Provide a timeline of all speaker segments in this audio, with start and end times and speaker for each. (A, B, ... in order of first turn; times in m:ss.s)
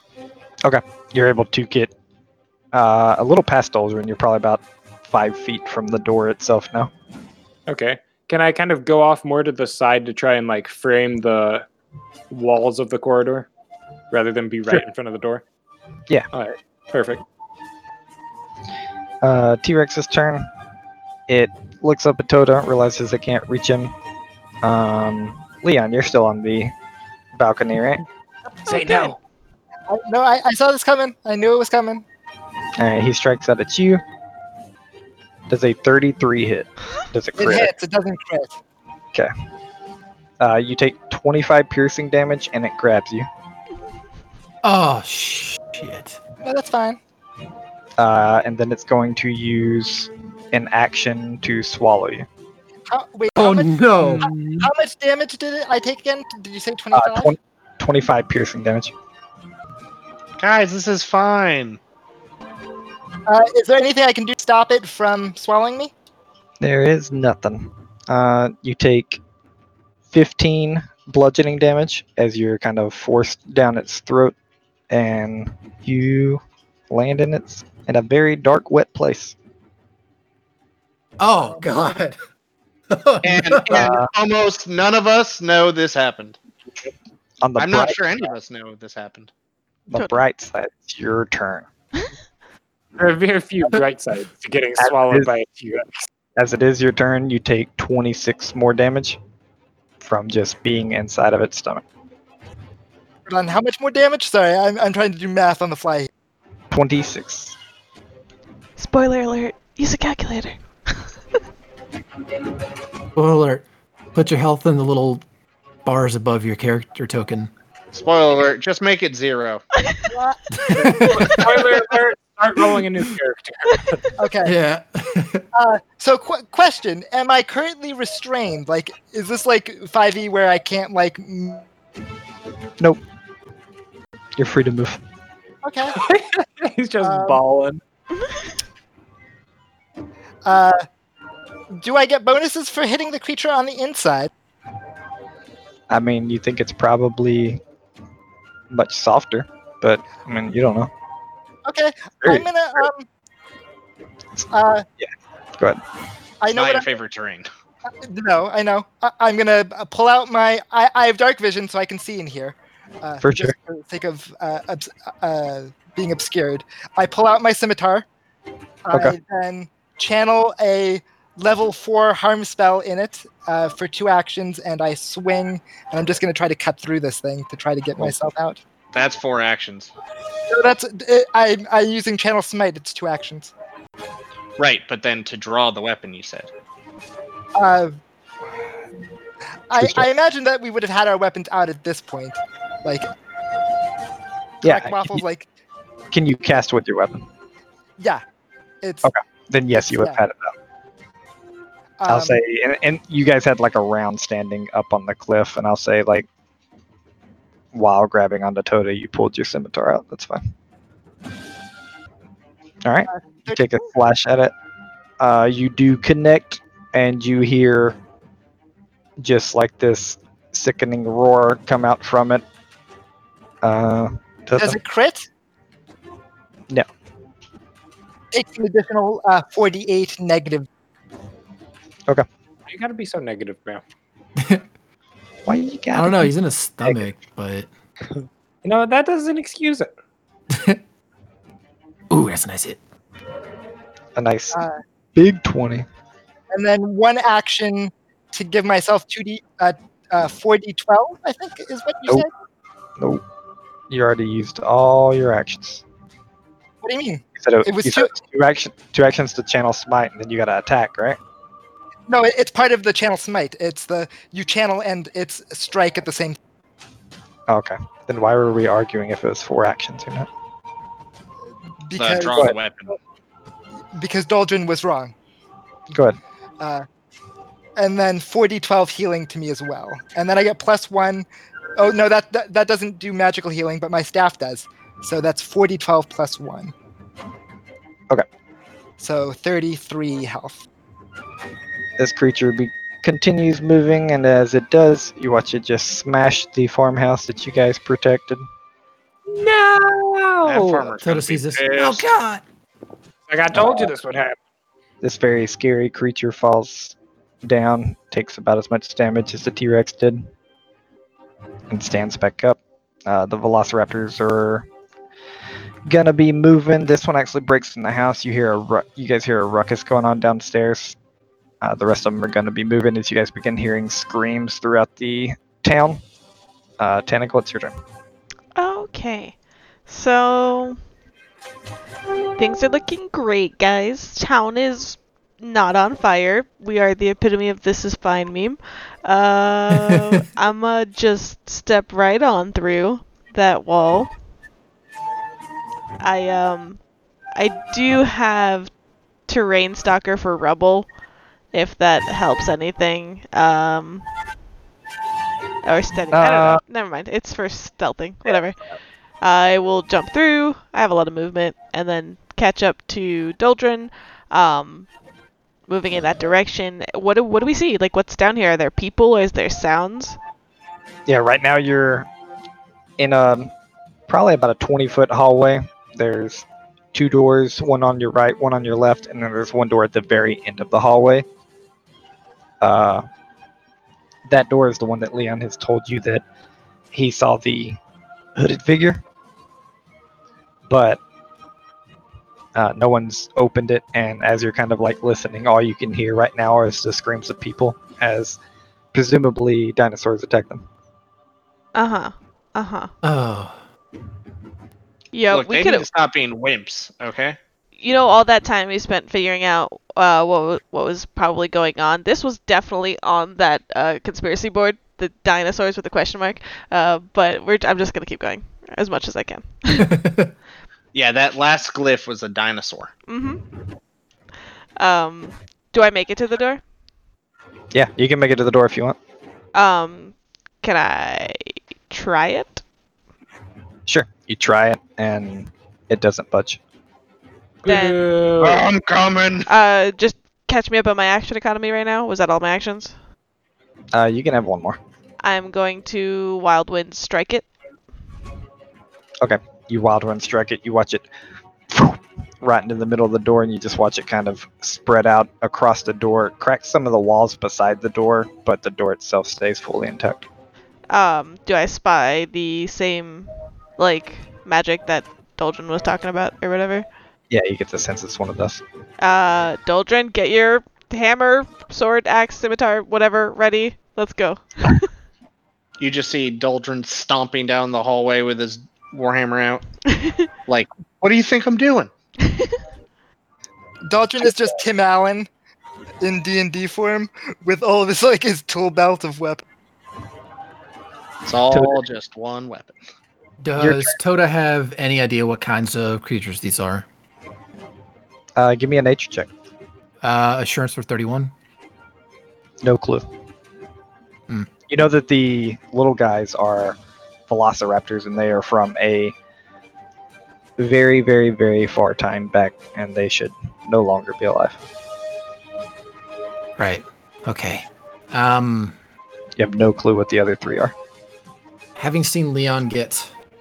0:00.6-0:01.9 A
0:02.7-0:06.9 A
0:07.7-0:11.7 B
0:12.3-0:13.5 B
0:14.1-0:15.4 B
0:16.3-0:17.2 B
0:19.2-0:20.5 A
0:21.3-0:23.9 A
0:24.6-0:26.7 A
0:27.3-0:28.0 A
0:28.7-0:29.2 B
0:28.8-0:29.1 C
0:29.9-0:32.0 D
0:32.8-0:34.0 A
0:35.5-0:37.7 A
0:37.4-0:38.6 D
0:40.4-0:43.3 A
0:44.6-0:46.2 E
0:46.4-0:47.0 D
0:48.0-0:52.3 A
0:52.9-0:57.3 D
0:53.4-0:54.7 E
0:56.9-0:58.9 A
1:00.4-1:01.8 F
1:03.3-1:05.9 D
1:06.6-1:09.2 A
1:10.1-1:14.4 A
1:14.9-1:19.4 A
1:21.2-1:22.2 E
1:22.9-1:23.9 E
1:23.2-1:26.4 F
1:23.7-1:24.1 A
1:27.4-1:28.0 A
1:27.6-1:29.3 F
1:29.9-1:31.7 A
1:30.0-1:30.2 C
1:33.0-1:36.0 B
1:34.8-1:35.3 A
1:36.4-1:39.2 A
1:40.0-1:41.8 A
1:43.3-1:46.1 D
1:46.7-1:47.6 A
1:48.8-1:51.1 C
1:53.2-1:55.2 E
1:55.8-1:57.5 E
1:57.9-1:59.6 F
2:00.1-2:01.0 D
2:00.7-2:01.7 E
2:00.9-2:04.0 B
2:01.0-2:01.3 C
2:04.2-2:04.6 D
2:04.4-2:05.4 E
2:05.5-2:11.7 D
2:14.4-2:15.0 A
2:15.6-2:16.0 D
2:15.9-2:17.8 B
2:17.0-2:17.4 D
2:20.4-2:20.8 D
2:21.8-2:24.3 D
2:25.9-2:27.6 A
2:28.7-2:30.9 A
2:31.7-2:33.1 D
2:32.2-2:32.9 A
2:34.5-2:34.8 D
2:35.0-2:35.8 A
2:36.4-2:36.9 D
2:36.5-2:37.5 F
2:38.0-2:48.0 D
2:43.2-2:43.5 A
2:48.8-2:58.6 D
2:58.9-2:59.9 F
3:00.5-3:03.5 D
3:04.6-3:06.5 F
3:07.6-3:08.0 D
3:09.7-3:13.1 D
3:09.8-3:10.1 A
3:14.6-3:15.2 A
3:14.6-3:15.5 D
3:16.1-3:17.3 A
3:18.8-3:19.1 D
3:19.0-3:20.5 A
3:19.9-3:20.2 D
3:22.0-3:22.4 D
3:22.1-3:26.3 A
3:27.7-3:30.4 A
3:32.8-3:34.5 A
3:33.1-3:33.8 D
3:35.2-3:38.0 A
3:39.2-3:42.4 A
3:43.6-3:44.8 A
3:44.6-3:45.3 D
3:48.3-3:50.7 D
3:52.7-3:53.8 B
3:54.4-3:54.6 E
3:55.5-3:56.3 A
3:56.0-3:57.7 E
3:58.2-3:59.9 B
4:00.5-4:00.8 E
4:02.1-4:02.8 E
4:04.2-4:04.6 A
4:05.2-4:05.9 A
4:06.5-4:12.3 D
4:13.9-4:15.8 A
4:16.8-4:18.1 D
4:17.4-4:21.2 A
4:22.1-4:26.4 D
4:27.5-4:30.3 A
4:31.9-4:32.5 D
4:32.0-4:32.9 F
4:34.0-4:35.1 D
4:35.9-4:36.2 A
4:37.8-4:41.3 D
4:41.8-4:46.7 D
4:49.0-4:50.6 D
4:52.0-4:58.5 A
4:59.3-5:01.0 B
5:00.4-5:02.0 F
5:01.0-5:02.4 E
5:03.3-5:04.4 B
5:03.5-5:03.9 A
5:05.0-5:10.2 A
5:11.7-5:14.7 A
5:15.9-5:21.0 A
5:21.6-5:26.0 A
5:26.8-5:27.8 A
5:28.6-5:30.8 C
5:32.4-5:44.1 C
5:39.9-5:40.1 E
5:46.0-5:46.8 C
5:47.4-5:48.7 C
5:49.3-5:50.9 C
5:51.5-5:54.1 C
5:55.6-5:58.6 C
5:56.1-5:56.6 A
5:59.2-6:04.9 C
6:05.7-6:10.2 C
6:11.1-6:12.1 A
6:13.0-6:13.5 A
6:14.1-6:21.2 A
6:22.6-6:23.0 A
6:24.3-6:26.2 A
6:26.9-6:27.8 A
6:28.4-6:29.0 A
6:30.7-6:31.0 A
6:32.6-6:38.4 A
6:38.9-6:40.6 A
6:41.8-6:42.9 C
6:43.0-6:43.6 E
6:45.1-6:45.9 C
6:45.3-6:47.4 F
6:47.8-6:59.9 C
6:59.8-7:00.3 E
7:00.9-7:02.9 F
7:03.1-7:03.4 C
7:04.8-7:06.6 C
7:07.7-7:09.0 A
7:09.5-7:12.6 C
7:13.9-7:16.6 A
7:17.6-7:18.7 B
7:17.6-7:18.0 C
7:18.4-7:19.5 F
7:19.5-7:23.0 C
7:23.9-7:24.8 A
7:25.2-7:27.5 C
7:29.2-7:31.1 A
7:31.7-7:40.3 A
7:40.9-7:46.9 C
7:47.3-7:48.6 A
7:49.0-7:54.9 C
7:55.8-7:59.6 F
7:59.9-8:00.3 C
8:00.5-8:01.9 F
8:02.2-8:02.5 C
8:03.9-8:05.3 D
8:06.0-8:09.4 D
8:11.3-8:12.8 F
8:11.5-8:11.8 A
8:13.4-8:16.9 E
8:13.6-8:14.0 A
8:18.4-8:19.3 A
8:20.0-8:21.3 E
8:22.6-8:23.0 A
8:24.7-8:26.8 A
8:27.3-8:29.2 A
8:30.6-8:34.6 A
8:36.6-8:38.8 E
8:39.4-8:40.7 A
8:41.8-8:43.1 E